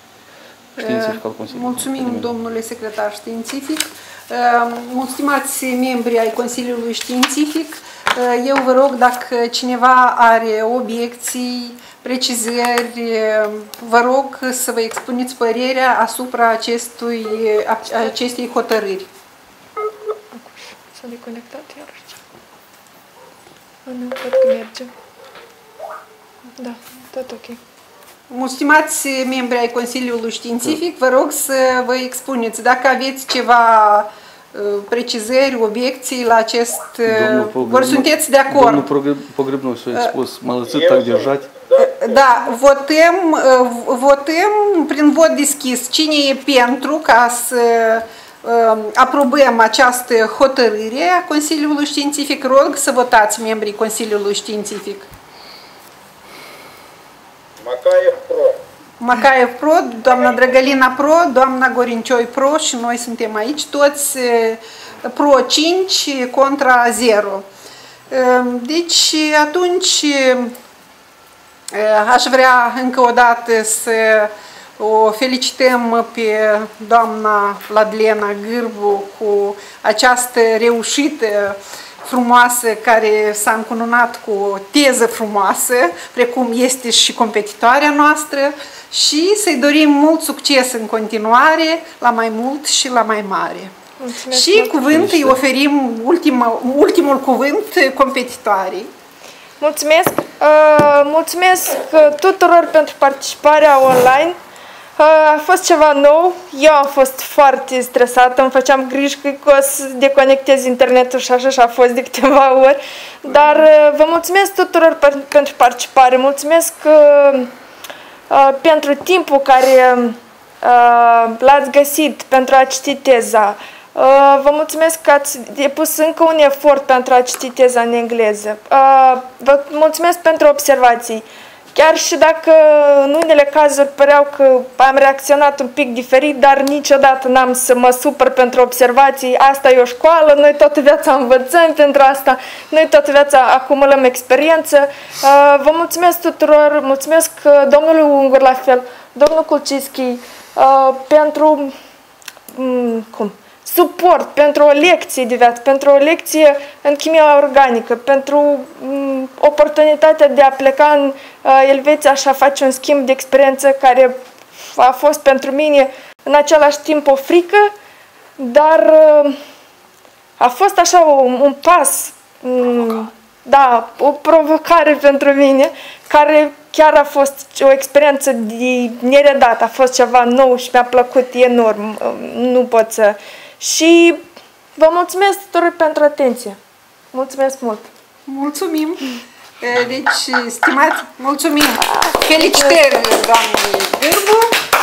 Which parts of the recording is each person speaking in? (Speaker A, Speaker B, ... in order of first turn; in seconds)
Speaker A: 0.8-2.3, 37.1-41.5, 94.9-95.4
Speaker B: 0.8-19.1, 28.3-38.9, 41.8-55.1, 59.0-67.5, 68.1-70.5, 71.7-93.7, 94.3-98.9, 188.3-189.1, 189.6-194.6
Speaker C: 20.3-22.2, 23.9-24.9, 26.6-27.6, 94.0-94.8, 99.6-104.4, 105.0-117.5, 118.3-151.7, 152.5-167.7, 168.4-169.4, 170.4-184.2, 184.8-186.6, 187.1-187.9, 191.8-192.8
Speaker D: 40.7-42.3, 57.6-58.6